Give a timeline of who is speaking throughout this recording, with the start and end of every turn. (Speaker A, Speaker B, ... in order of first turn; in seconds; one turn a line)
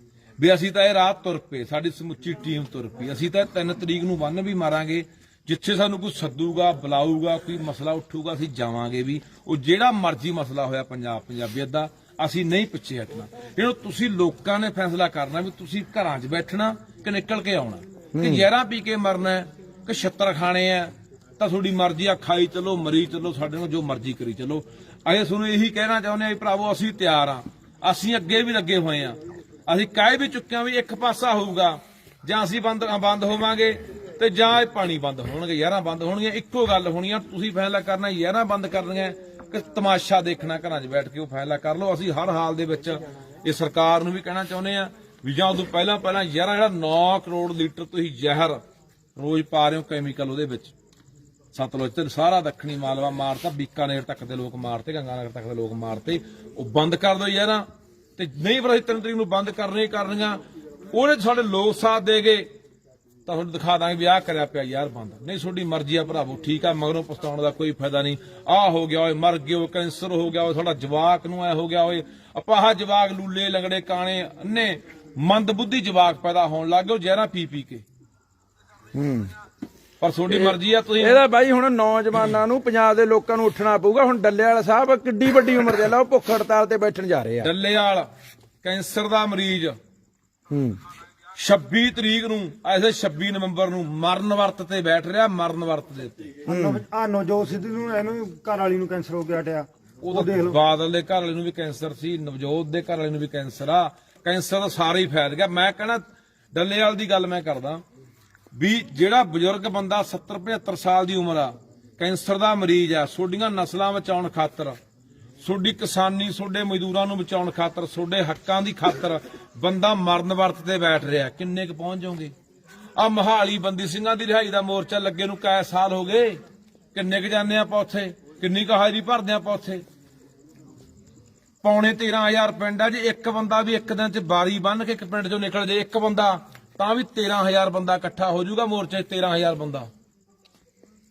Speaker A: 0.4-48.6
Speaker B: 18.1-18.4
Speaker A: 49.2-50.7
Speaker A: 51.5-57.6
Speaker A: 58.2-60.4
Speaker A: 60.9-62.5
Speaker A: 63.3-77.8
Speaker B: 79.0-79.3
Speaker A: 80.0-81.2
Speaker B: 80.3-87.5
Speaker A: 87.4-88.1
Speaker A: 88.6-89.8
Speaker B: 90.5-90.8
Speaker A: 91.4-96.4
Speaker B: 96.5-96.8
Speaker C: 96.5-100.6
Speaker A: 100.0-107.8
Speaker A: 108.5-114.8
Speaker A: 115.4-122.3
Speaker A: 123.0-126.4
Speaker A: 126.9-129.8
Speaker A: 131.6-139.9